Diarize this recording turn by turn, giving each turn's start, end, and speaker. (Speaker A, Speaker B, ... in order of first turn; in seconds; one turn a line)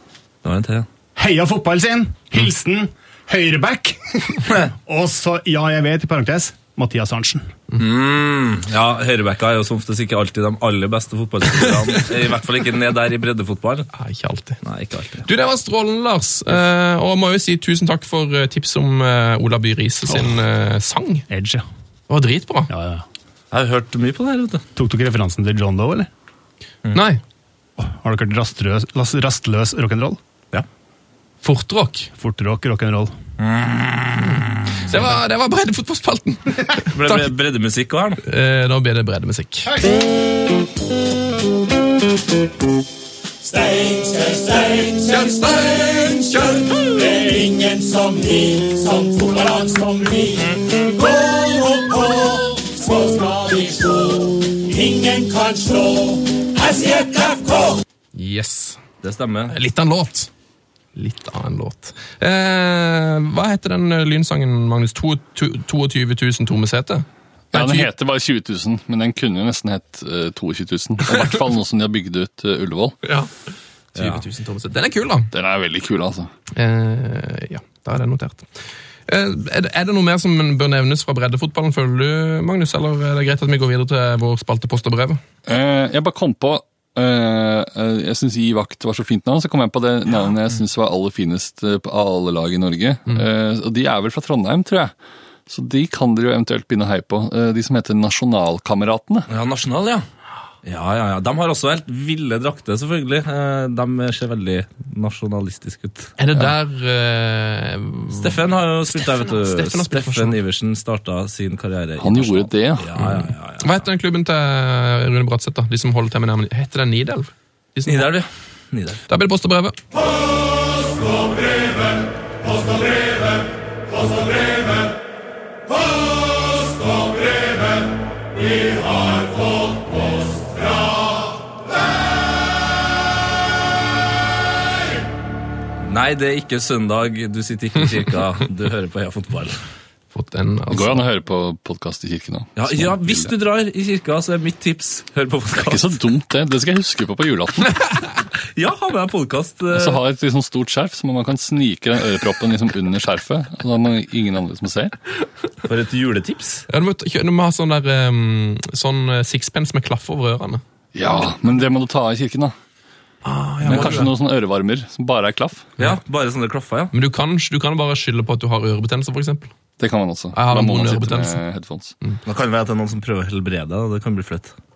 Speaker A: 0.4-0.9
Speaker B: 1.2-7.5
Speaker A: 7.8-13.9
Speaker C: 13.9-14.6
Speaker A: 14.6-15.2
Speaker C: 15.3-21.2
Speaker B: 21.3-21.6
Speaker C: 22.1-22.7
Speaker B: 22.7-23.1
Speaker A: 23.5-24.6
Speaker B: 24.8-26.1
Speaker C: 26.9-27.2
Speaker B: 27.8-30.2
Speaker C: 31.4-32.1
Speaker B: 32.2-33.1
Speaker A: 33.4-34.8
Speaker C: 34.9-37.3
Speaker A: 36.9-38.2
Speaker C: 38.2-39.7
Speaker B: 39.7-40.0
Speaker D: 43.4-57.8
Speaker C: 45.1-47.0
Speaker C: 58.1-58.8
Speaker A: 59.0-59.5
Speaker C: 59.5-60.3
Speaker C: 61.0-67.9
Speaker E: 67.5-73.0
Speaker C: 73.0-73.3
Speaker A: 74.0-74.2
Speaker C: 74.0-75.3
Speaker E: 75.3-76.3
Speaker C: 76.5-78.5
Speaker C: 79.1-85.2
Speaker E: 85.5-94.9
Speaker E: 95.5-99.3
Speaker A: 99.3-100.1
Speaker A: 100.6-106.1
Speaker C: 106.2-110.4
Speaker A: 108.1-113.8
Speaker E: 112.0-113.2
Speaker C: 113.6-118.1
Speaker A: 117.9-119.0
Speaker C: 119.1-119.8
Speaker A: 135.8-139.6
Speaker C: 140.1-141.0
Speaker E: 140.7-143.3
Speaker A: 142.6-145.9
Speaker E: 145.6-147.9
Speaker A: 148.6-150.0
Speaker E: 149.7-154.9
Speaker A: 155.7-156.7
Speaker C: 156.7-160.6
Speaker E: 160.9-162.5
Speaker C: 163.2-164.1
Speaker E: 163.6-165.7
Speaker A: 163.7-164.0
Speaker A: 165.8-166.9
Speaker C: 166.9-169.5
Speaker E: 169.8-171.9
Speaker C: 170.3-171.4
Speaker A: 172.3-174.5